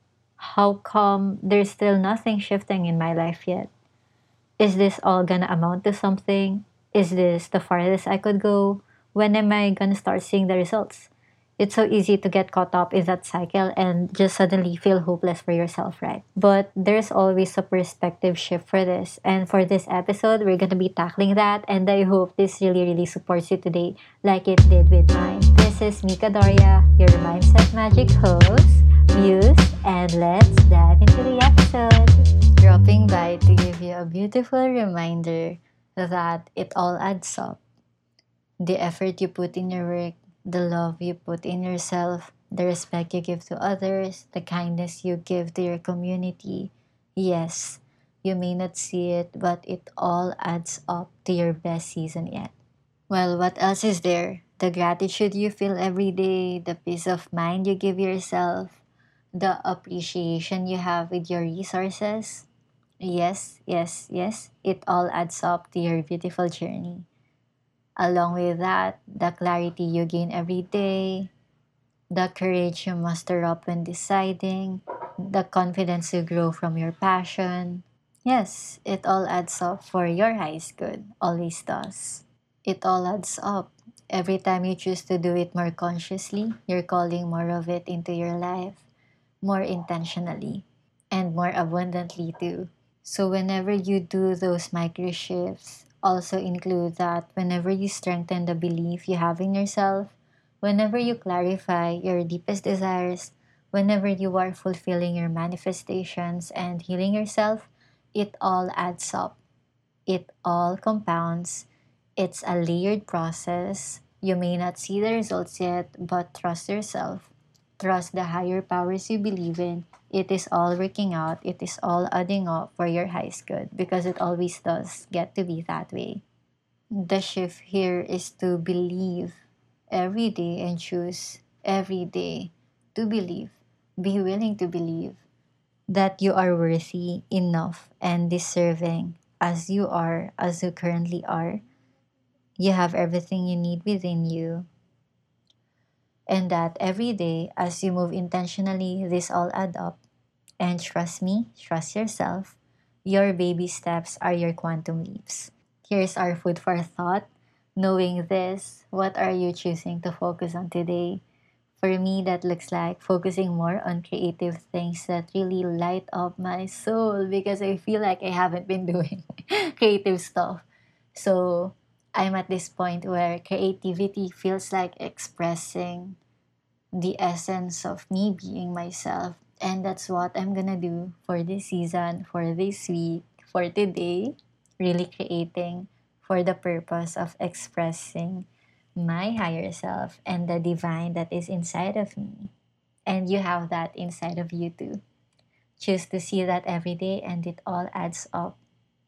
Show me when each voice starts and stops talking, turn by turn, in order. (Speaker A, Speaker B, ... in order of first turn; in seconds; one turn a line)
Speaker A: 0.4-3.7
Speaker A: 4.6-37.6
Speaker A: 38.6-52.5
Speaker A: 53.1-58.8
Speaker A: 59.4-62.5
Speaker A: 63.0-67.1
Speaker A: 68.0-71.3
Speaker A: 72.1-88.8
Speaker A: 89.4-109.4
Speaker A: 110.1-111.7
Speaker A: 112.2-126.2
Speaker A: 126.9-129.4
Speaker A: 129.9-135.2
Speaker A: 135.9-141.6
Speaker A: 142.6-144.7
Speaker A: 146.3-150.0
Speaker A: 150.6-161.2
Speaker A: 161.8-170.6
Speaker A: 171.2-176.2
Speaker A: 176.9-188.5
Speaker A: 189.0-192.5
Speaker A: 193.1-195.0
Speaker A: 195.8-198.6